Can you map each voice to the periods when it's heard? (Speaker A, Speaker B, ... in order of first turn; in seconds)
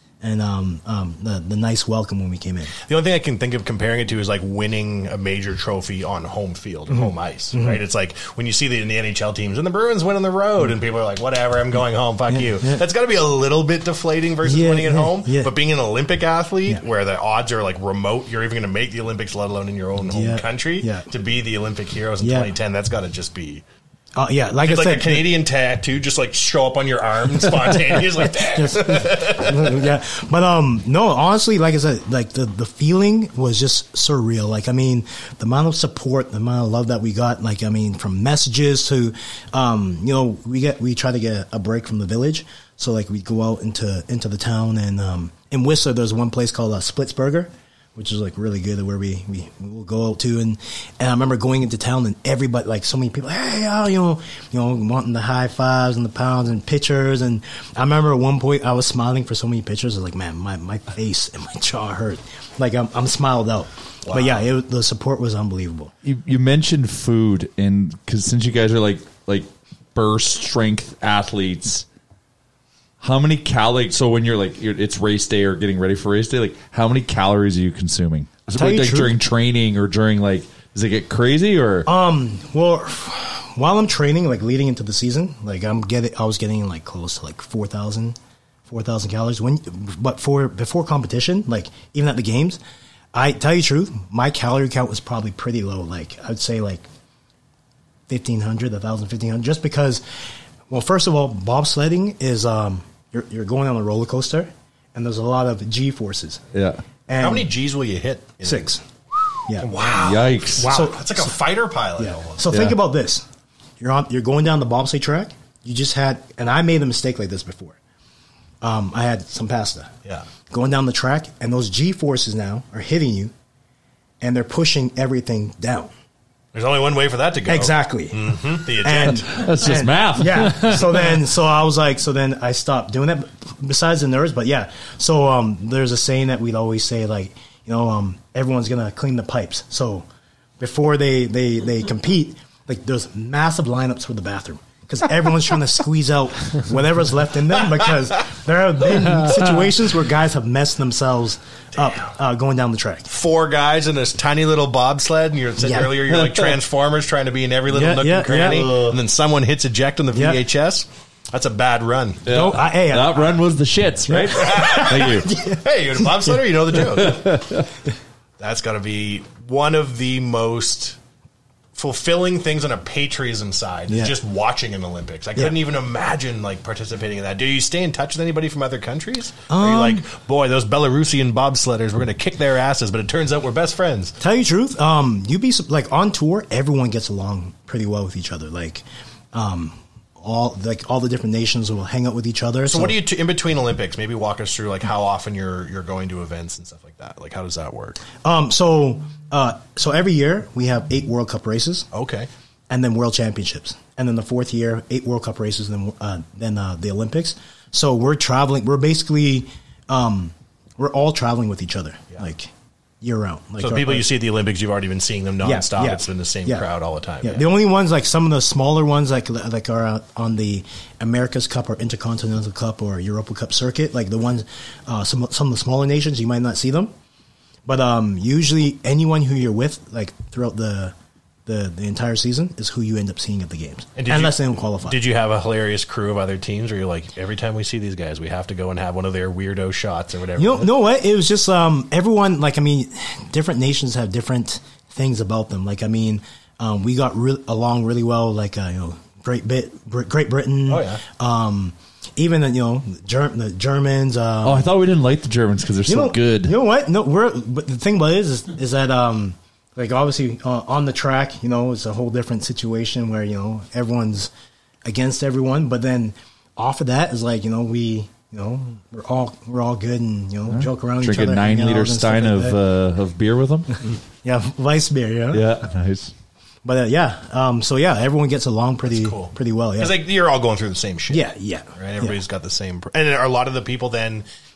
Speaker A: 0.2-2.7, 6.9-7.8, 12.3-12.8, 14.4-15.5, 20.1-21.1, 22.2-22.5, 24.1-25.3, 28.4-65.9, 78.5-79.2, 81.8-88.2, 88.7-92.6, 93.1-96.9, 98.1-100.0, 100.7-106.4, 107.1-107.5, 108.4-108.8, 110.6-111.3, 112.0-113.2, 113.8-117.8, 118.6-119.9, 120.5-123.3, 124.2-125.9, 127.5-140.1, 140.6-153.1, 155.6-156.0, 157.7-158.8, 160.1-160.4, 162.3-163.3, 164.1-165.6, 173.9-174.1, 179.5-180.0, 184.2-193.0, 198.2-201.9, 202.7-214.1, 215.4-216.7, 217.2-226.9, 227.7-230.9, 231.4-235.0, 240.4-254.7, 255.9-264.3, 264.8-272.6, 274.2-275.5, 276.6-279.9, 281.1-282.2
Speaker B: 2.8-23.6, 24.6-29.8, 64.0-64.4, 107.2-108.7, 109.6-112.4, 126.5-129.3, 153.1-162.2, 164.4-167.2, 168.4-171.0, 171.7-184.2, 192.7-198.0, 201.9-202.3, 213.6-217.4, 234.0-240.7, 250.7-251.0, 278.8-281.2, 281.8-284.2
Speaker C: 66.0-71.8, 73.0-81.9, 106.5-106.8, 110.0-110.7, 112.5-112.8, 129.2-130.8, 162.2-165.3, 167.0-167.7, 254.4-256.5, 270.5-273.7, 275.3-276.1